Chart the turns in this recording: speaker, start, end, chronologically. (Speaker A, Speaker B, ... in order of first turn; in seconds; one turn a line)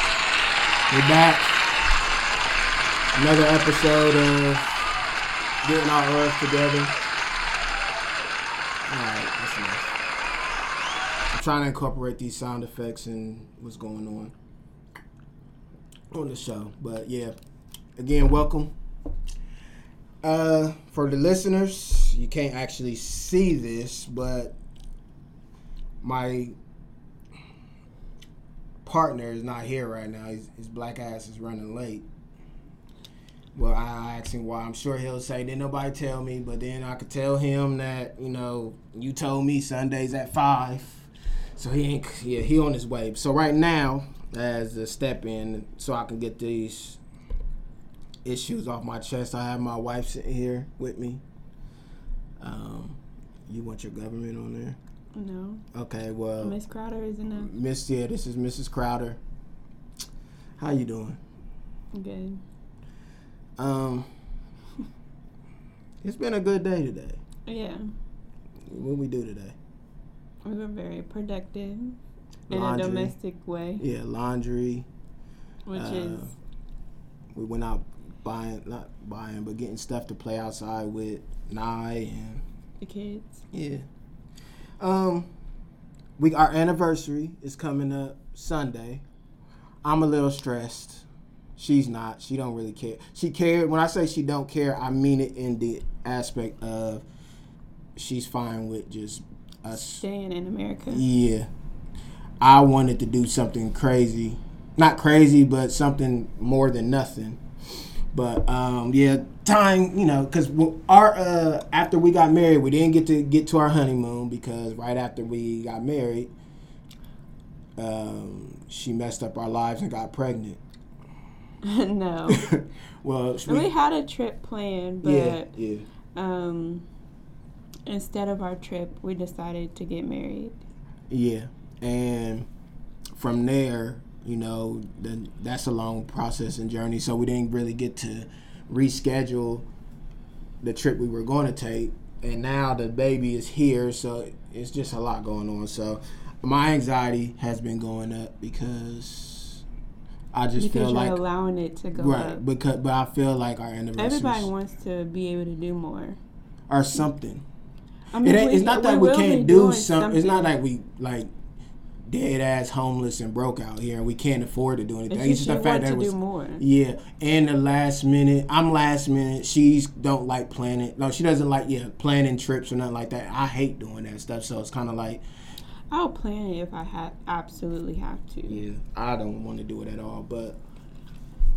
Speaker A: 0.9-1.5
Speaker A: 3.1-4.7
Speaker A: 5.6-6.9
Speaker A: 8.9-9.9
Speaker A: 11.3-14.3
Speaker A: 16.1-17.4
Speaker A: 18.0-18.7
Speaker A: 20.2-24.6
Speaker A: 26.0-26.6
Speaker A: 28.8-32.0
Speaker A: 33.5-47.0
Speaker A: 48.2-51.2
Speaker A: 52.4-54.8
Speaker B: 55.1-55.6
Speaker A: 55.7-56.6
Speaker B: 56.4-57.5
Speaker A: 57.3-59.2
Speaker A: 60.6-61.2
Speaker B: 61.9-62.4
Speaker A: 63.6-64.1
Speaker A: 66.0-67.2
Speaker B: 67.5-67.8
Speaker A: 68.7-69.5
Speaker B: 70.4-72.0
Speaker A: 72.5-73.1
Speaker B: 72.5-73.8
Speaker A: 73.8-74.9
Speaker B: 75.7-76.2
Speaker A: 75.7-76.3
Speaker A: 77.3-82.4
Speaker B: 82.8-83.4
Speaker A: 83.5-83.8
Speaker A: 84.8-85.3
Speaker A: 86.2-89.0
Speaker A: 89.8-91.0
Speaker A: 91.6-97.0
Speaker A: 98.0-100.0
Speaker B: 99.8-101.0
Speaker A: 100.9-101.5
Speaker A: 102.4-107.4
Speaker A: 108.1-116.3
Speaker A: 117.8-120.6
Speaker B: 121.6-122.5
Speaker A: 122.3-123.7
Speaker B: 123.5-125.5
Speaker A: 125.0-125.9
Speaker B: 126.2-126.9
Speaker B: 127.9-130.6
Speaker A: 131.1-132.5
Speaker A: 133.2-139.7
Speaker A: 140.6-149.6
Speaker A: 150.3-151.2
Speaker B: 150.6-152.4
Speaker A: 151.9-154.5
Speaker B: 154.0-156.2
Speaker A: 156.7-157.4
Speaker B: 158.1-160.5
Speaker A: 158.2-161.3
Speaker A: 162.1-175.2
Speaker B: 165.1-166.6
Speaker B: 175.9-178.6
Speaker A: 178.5-180.6